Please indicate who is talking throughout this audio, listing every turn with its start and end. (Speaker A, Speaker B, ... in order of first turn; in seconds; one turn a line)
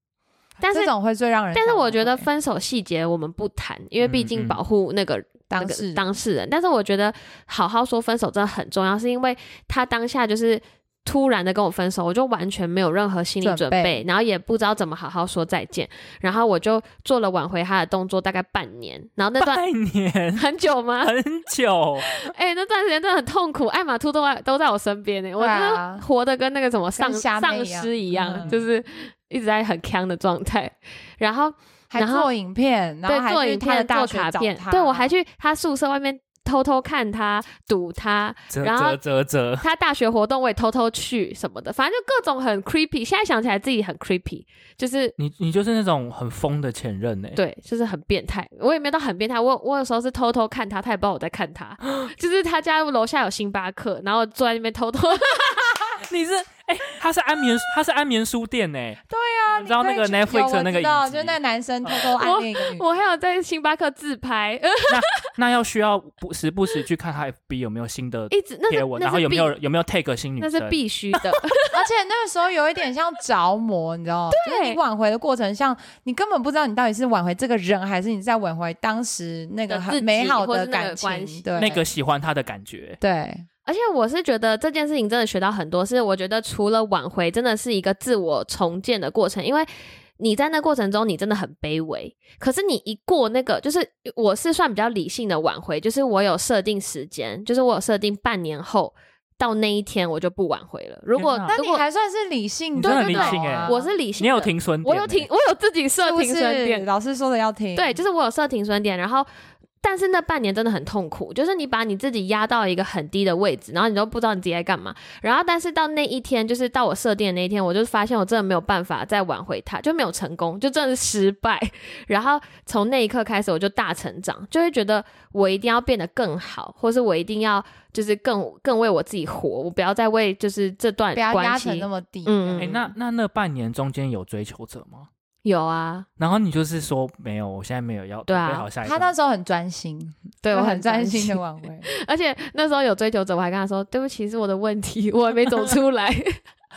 Speaker A: 0.6-0.9
Speaker B: 0.7-2.3
Speaker A: 1.5-19.6
Speaker C: 4.0-4.6
Speaker B: 5.5-6.0
Speaker B: 13.4-14.0
Speaker C: 19.4-20.4
Speaker A: 20.4-21.1
Speaker C: 21.0-22.3
Speaker A: 22.0-32.3
Speaker B: 25.4-26.1
Speaker B: 26.9-28.5
Speaker B: 31.9-35.1
Speaker A: 33.1-39.0
Speaker C: 38.5-39.6
Speaker A: 39.6-45.1
Speaker C: 45.2-47.4
Speaker A: 47.4-55.8
Speaker C: 56.0-62.1
Speaker B: 59.1-62.9
Speaker A: 61.9-65.2
Speaker C: 64.9-71.5
Speaker A: 68.3-69.5
Speaker A: 70.4-71.8
Speaker B: 71.7-81.8
Speaker A: 74.3-74.8
Speaker A: 79.7-81.8
Speaker C: 81.6-83.0
Speaker B: 83.0-83.5
Speaker A: 83.7-101.8
Speaker C: 101.2-101.5
Speaker B: 101.5-103.9
Speaker C: 102.8-105.3
Speaker A: 102.8-106.9
Speaker B: 106.0-108.0
Speaker A: 107.8-109.3
Speaker A: 109.8-132.9
Speaker B: 131.1-132.9
Speaker C: 132.6-135.1
Speaker A: 135.4-136.1
Speaker C: 136.2-139.1
Speaker A: 138.3-138.7
Speaker B: 138.8-141.9
Speaker A: 140.4-146.4